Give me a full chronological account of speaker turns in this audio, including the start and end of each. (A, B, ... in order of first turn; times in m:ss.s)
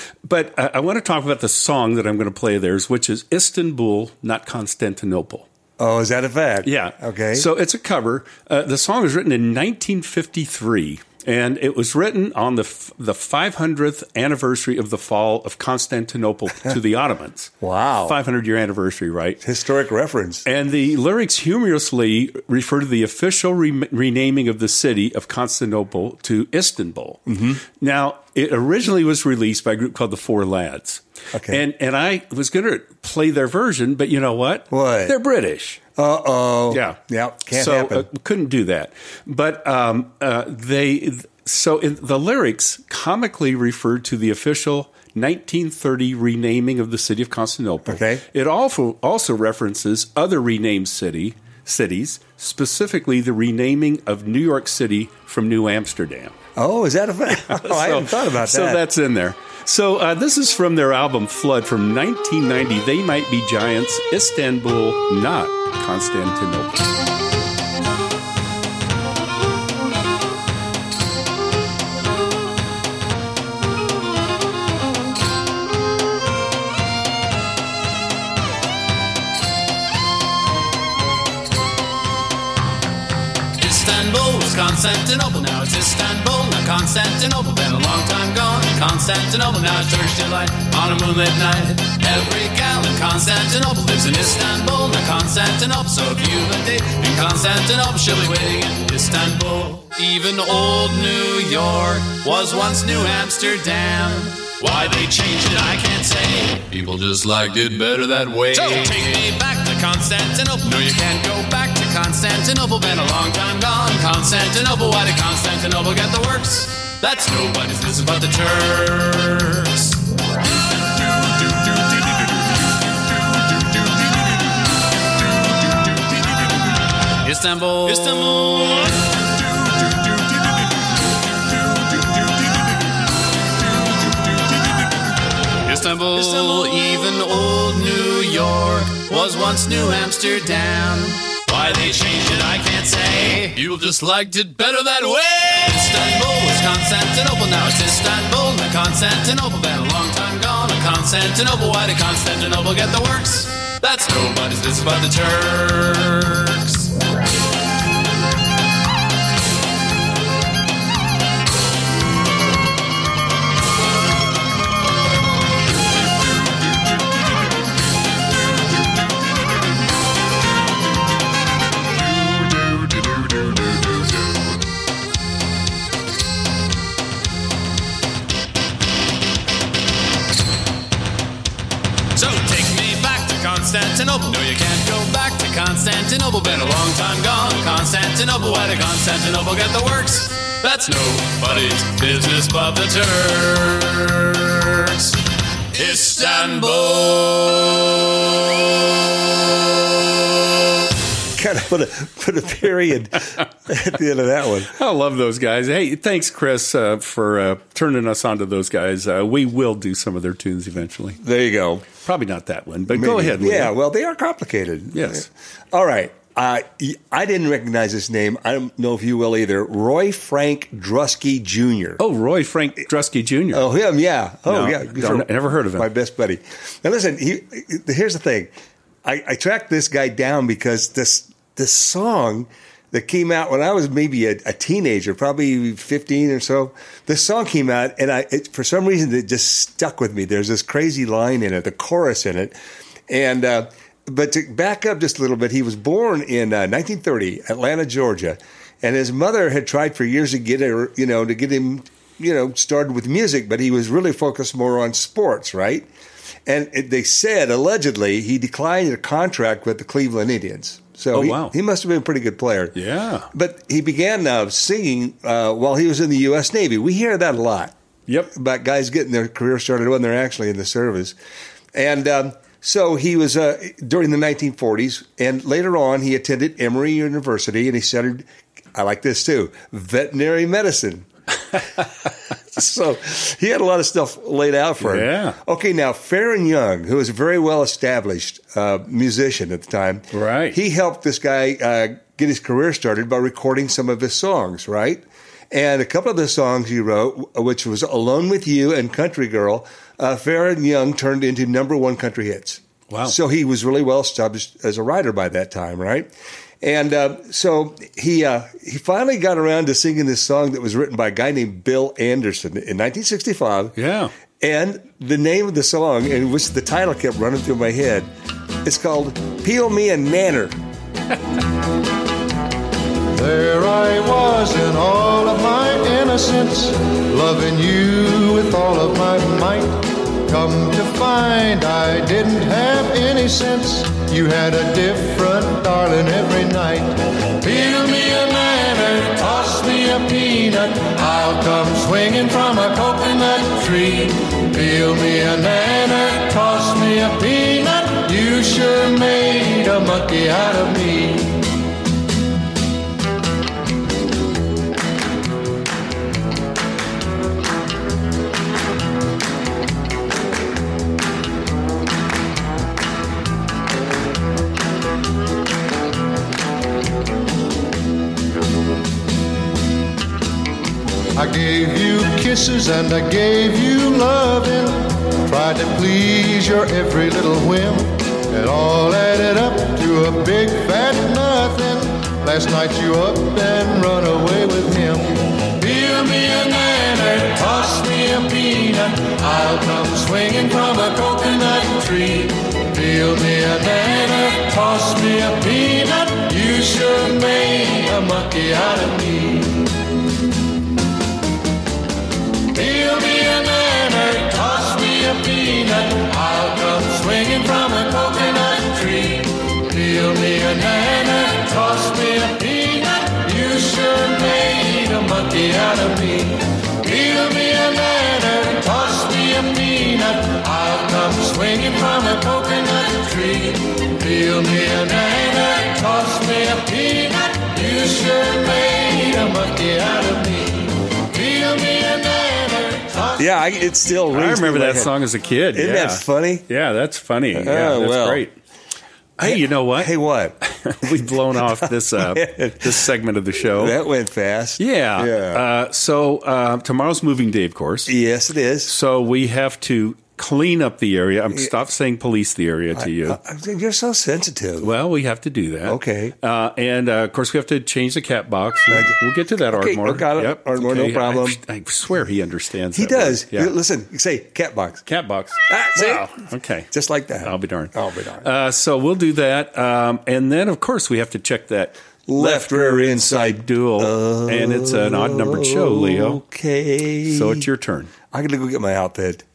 0:00.3-0:05.4 A
0:05.8-0:07.5 B
0:06.6-0:17.5 A
0:17.6-0:18.2 B
0:18.0-0:19.4 A
0:19.4-0:20.4 B
0:20.4-0:27.2 A
0:27.3-0:27.6 B
0:27.8-0:35.8 A
0:31.3-0:31.6 B
0:34.7-0:35.2 B
0:36.0-0:38.1 B
0:36.7-0:37.0 A
0:37.5-0:56.4 A
0:47.9-0:48.2 B
0:56.6-0:58.8 B
0:57.4-1:06.8 A
1:23.6-2:00.0 C
2:07.2-2:09.0 C
2:15.6-2:36.9 C
3:02.1-3:15.1 C
3:15.7-3:17.9 C
3:21.4-3:24.7 B
3:24.7-3:31.2 A
3:31.2-3:31.9 B
3:32.0-3:33.7 A
3:32.9-3:42.0 B
3:34.9-3:35.2 A
3:42.0-3:43.7 A
3:43.5-3:48.5 B
3:44.4-3:45.9 A
3:49.0-4:02.6 B
4:03.1-4:15.9 B
4:16.4-4:22.8 B
4:21.1-4:21.5 A
4:22.7-4:23.3 A
4:23.3-4:27.7 B
4:28.3-4:31.2 B
4:31.7-4:41.0 B
4:42.5-5:13.7 B
4:44.8-4:45.4 A
4:50.1-4:50.6 A
5:02.9-5:03.2 A
5:13.8-5:14.1 A
5:14.4-5:18.1 B
5:18.6-5:20.6 B
5:23.1-5:51.4 D
6:11.1-6:39.7 D
6:42.5-7:13.2 D
7:13.2-7:15.0 B
7:14.1-7:18.3 A
7:15.5-7:16.4 B
7:17.3-7:18.2 B
7:19.2-7:19.9 A
7:19.2-7:22.8 B
7:20.5-7:23.8 A
7:23.5-7:25.4 B
7:24.6-7:27.9 A
7:27.9-7:28.7 B
7:28.6-7:33.2 A
7:32.7-7:34.7 B
7:34.6-7:43.5 A
7:35.6-7:36.1 B
7:38.7-7:39.0 B
7:39.5-7:41.4 B
7:42.7-7:44.8 B
7:44.8-7:46.7 A
7:45.5-7:46.1 B
7:46.7-7:48.3 B
7:47.2-7:56.2 A
7:52.1-7:57.5 B
7:57.0-7:57.9 A
7:58.1-7:59.2 B